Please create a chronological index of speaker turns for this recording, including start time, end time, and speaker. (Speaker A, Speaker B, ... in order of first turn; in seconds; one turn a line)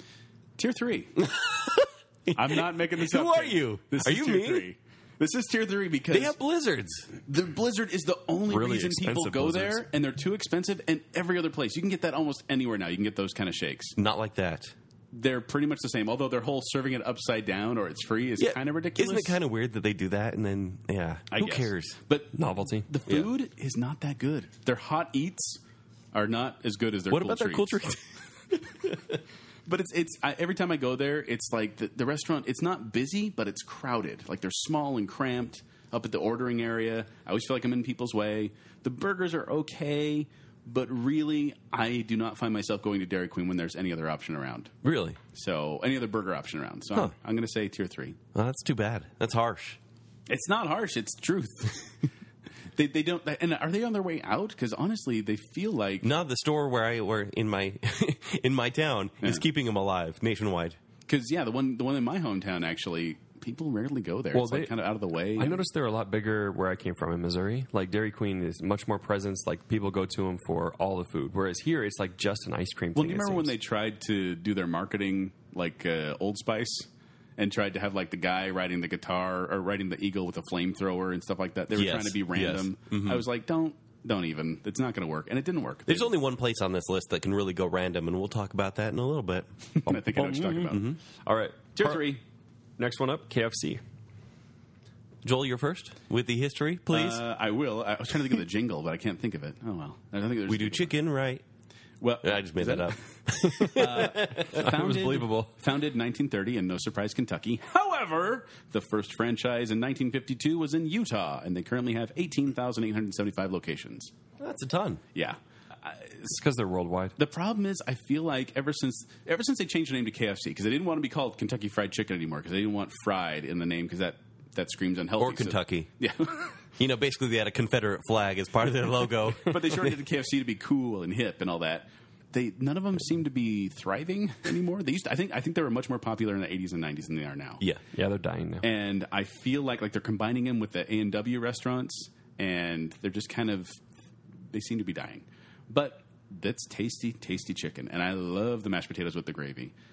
Speaker A: 0.6-1.3
Speaker B: 1.2-4.7
Speaker A: 2.4-6.4
Speaker B: 6.1-7.1
Speaker A: 7.2-14.0
Speaker C: 8.5-9.8
Speaker B: 14.0-14.7
Speaker A: 15.1-19.4
Speaker B: 18.4-22.0
Speaker A: 21.3-22.4
Speaker C: 22.4-22.9
Speaker A: 22.9-25.6
Speaker A: 26.1-27.8
Speaker B: 27.1-29.2
Speaker A: 29.7-44.7
Speaker B: 44.8-45.2
Speaker A: 45.3-48.2
Speaker B: 48.4-49.8
Speaker A: 50.3-52.1
Speaker A: 52.8-56.1
Speaker B: 56.0-60.8
Speaker A: 61.1-65.6
Speaker C: 64.3-64.7
Speaker C: 65.4-73.5
Speaker A: 73.0-86.1
Speaker B: 81.7-83.3
Speaker B: 85.9-89.5
Speaker A: 89.8-90.9
Speaker C: 89.9-92.1
Speaker B: 90.7-91.0
Speaker A: 91.8-92.2
Speaker C: 92.8-93.8
Speaker B: 95.2-97.2
Speaker A: 96.9-101.0
Speaker B: 100.5-101.4
Speaker A: 102.0-103.0
Speaker B: 102.2-104.7
Speaker C: 103.4-105.5
Speaker A: 103.6-114.1
Speaker B: 114.4-115.0
Speaker A: 115.2-116.3
Speaker C: 116.3-117.2
Speaker A: 117.2-126.5
Speaker B: 125.2-125.9
Speaker B: 126.8-129.9
Speaker A: 129.4-137.6
Speaker C: 137.9-138.7
Speaker A: 138.6-143.8
Speaker A: 144.5-149.7